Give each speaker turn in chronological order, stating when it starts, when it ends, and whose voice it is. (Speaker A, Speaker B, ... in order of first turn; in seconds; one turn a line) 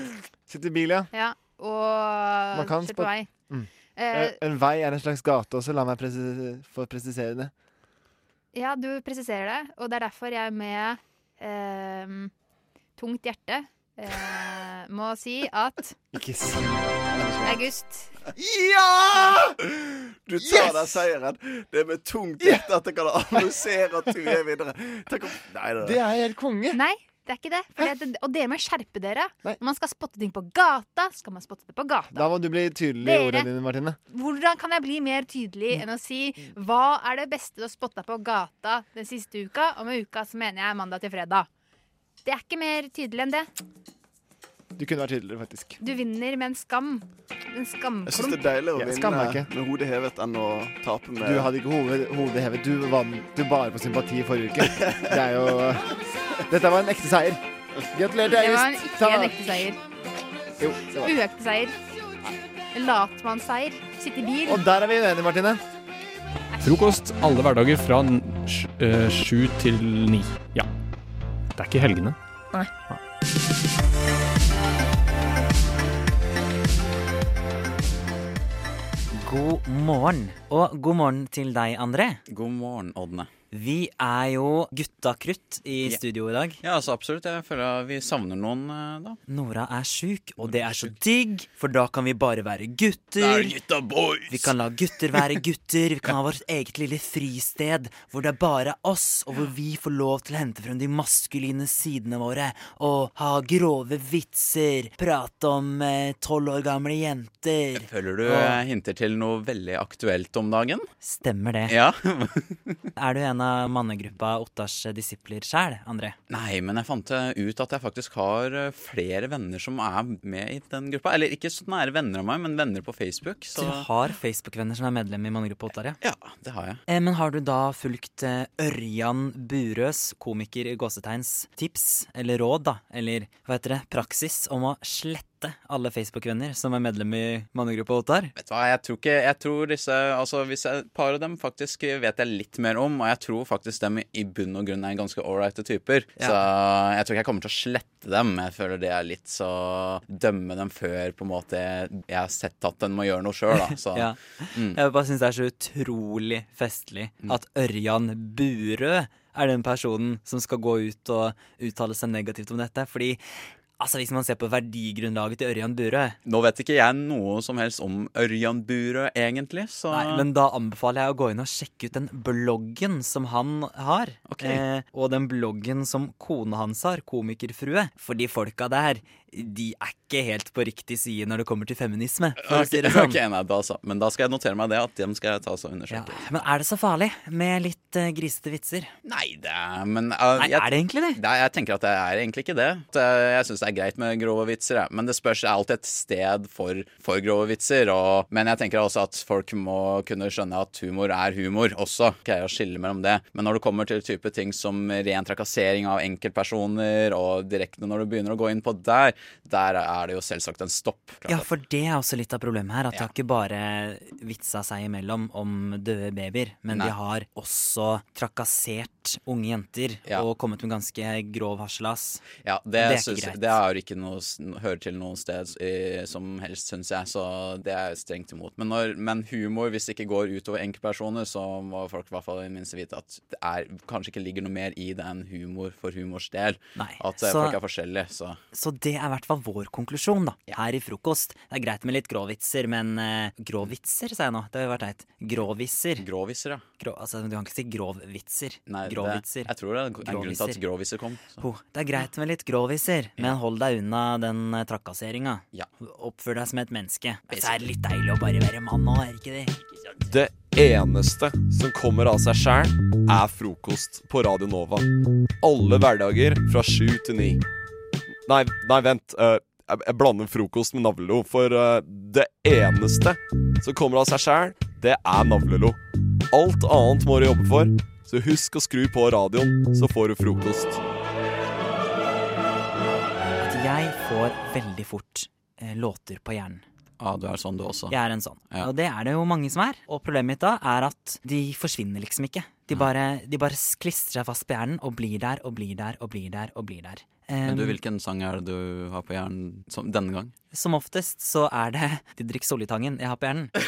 Speaker A: 0.5-1.1
Speaker B: 1.1-3.3
Speaker A: 2.5-7.5
Speaker B: 4.0-4.4
Speaker B: 8.5-12.3
Speaker B: 13.0-16.0
Speaker A: 16.1-17.6
Speaker B: 17.4-18.1
Speaker C: 18.4-26.0
Speaker A: 20.4-21.0
Speaker A: 25.8-26.8
Speaker B: 26.7-32.3
Speaker A: 32.1-34.0
Speaker B: 33.0-33.5
Speaker B: 34.1-41.5
Speaker B: 42.2-43.5
Speaker A: 44.8-45.8
Speaker B: 45.8-48.4
Speaker C: 48.1-51.5
Speaker A: 48.8-49.5
Speaker A: 51.2-55.9
Speaker A: 56.5-57.4
Speaker A: 57.9-59.3
Speaker B: 58.3-59.8
Speaker A: 60.6-61.1
Speaker B: 61.0-61.8
Speaker B: 62.7-64.6
Speaker A: 64.5-65.6
Speaker D: 66.6-70.7
Speaker D: 71.6-72.2
Speaker E: 79.1-82.2
Speaker F: 82.3-83.3
Speaker E: 83.5-86.6
Speaker F: 86.6-89.2
Speaker E: 89.3-93.6
Speaker F: 90.4-90.9
Speaker F: 93.2-94.5
Speaker E: 94.3-108.6
Speaker F: 107.8-110.9
Speaker E: 111.0-111.7
Speaker F: 111.7-112.8
Speaker E: 113.0-116.2
Speaker F: 116.3-123.9
Speaker E: 123.6-126.0
Speaker F: 126.0-126.8
Speaker E: 126.9-138.3
Speaker F: 138.4-154.8
Speaker E: 153.7-166.2
Speaker F: 166.2-170.3
Speaker E: 169.9-183.2
Speaker F: 174.3-174.6
Speaker F: 182.4-186.5
Speaker E: 185.9-188.9
Speaker F: 189.0-211.5
Speaker E: 190.4-191.2
Speaker E: 211.3-222.3
Speaker F: 222.4-238.4
Speaker E: 222.8-223.6
Speaker E: 236.8-237.6
Speaker E: 238.5-246.1
Speaker F: 246.0-246.6
Speaker E: 246.8-249.5
Speaker F: 248.7-251.4
Speaker E: 250.0-250.6
Speaker E: 251.4-259.6
Speaker F: 257.3-257.7
Speaker G: 260.1-264.9
Speaker G: 265.4-267.4
Speaker G: 268.3-275.8
Speaker G: 276.3-280.8
Speaker E: 283.4-286.6
Speaker F: 287.0-287.9
Speaker E: 287.9-297.8
Speaker F: 297.4-300.3
Speaker E: 300.5-303.5